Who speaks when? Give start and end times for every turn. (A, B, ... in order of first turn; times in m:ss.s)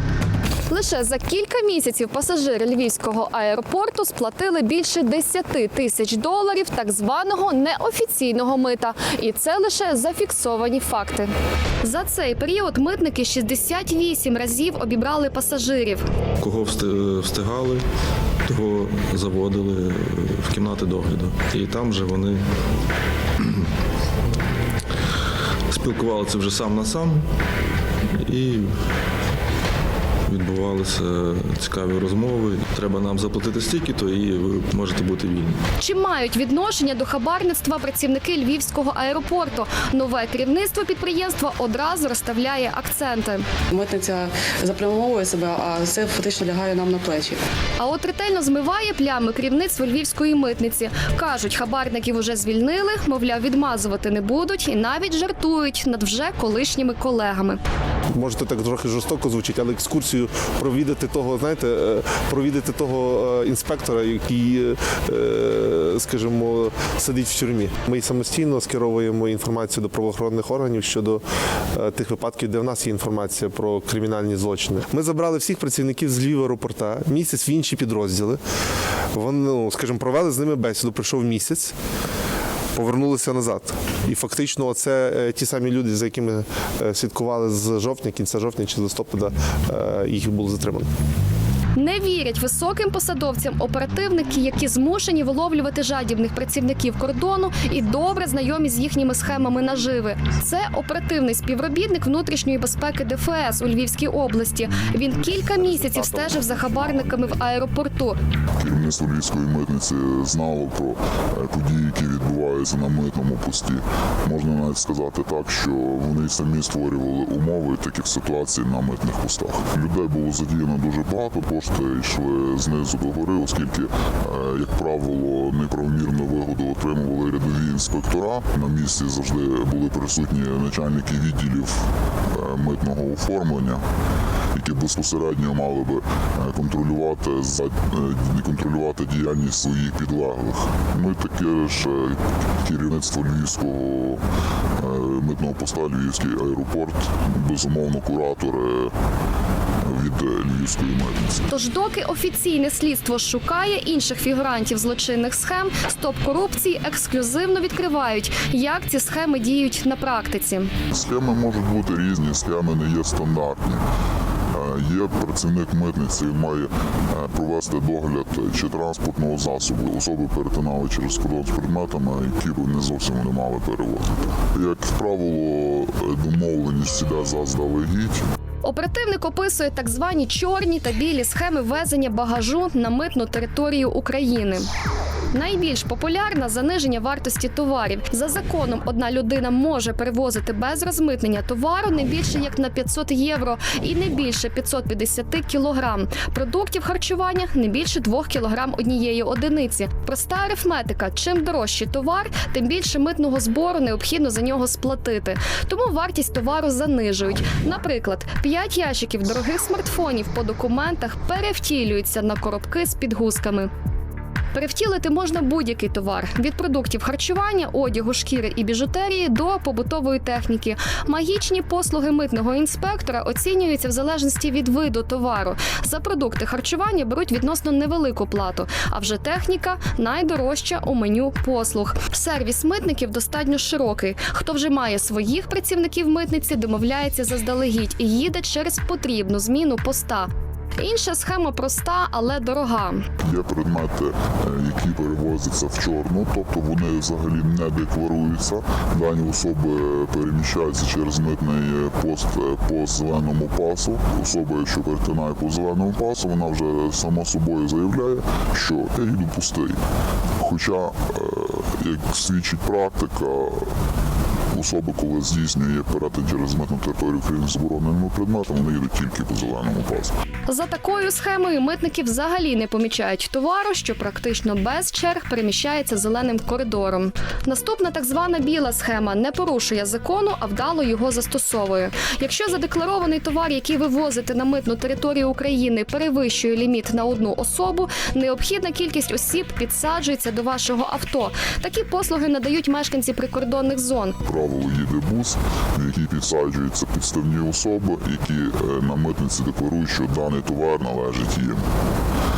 0:00.7-0:11.3 A
0:11.8-0:16.0 A
0:16.4-0:17.8 B
0:18.4-0:22.4 B
0:25.7-0:27.3 B
0:28.2-0:28.7 B
0:30.3-0:35.6 B
0:35.8-0:43.4 A
0:43.7-0:47.4 C
0:47.8-0:57.6 A
0:58.2-1:11.2 D
1:11.7-1:18.4 D
1:19.1-1:21.7 D
1:22.7-1:30.9 D
1:31.8-1:48.2 A
1:48.6-2:13.8 E
2:14.5-2:24.2 E
2:24.8-2:28.9 E
2:29.8-2:31.5 E
2:31.5-2:40.7 A
2:40.9-2:43.8 E
2:44.5-2:58.2 E
2:58.6-3:04.7 A
3:05.3-3:33.7 A
3:34.5-4:03.0 A
4:03.2-4:19.8 E
4:20.4-4:23.7 E
4:24.5-4:30.2 E
4:30.5-4:54.2 A
4:54.2-5:01.6 E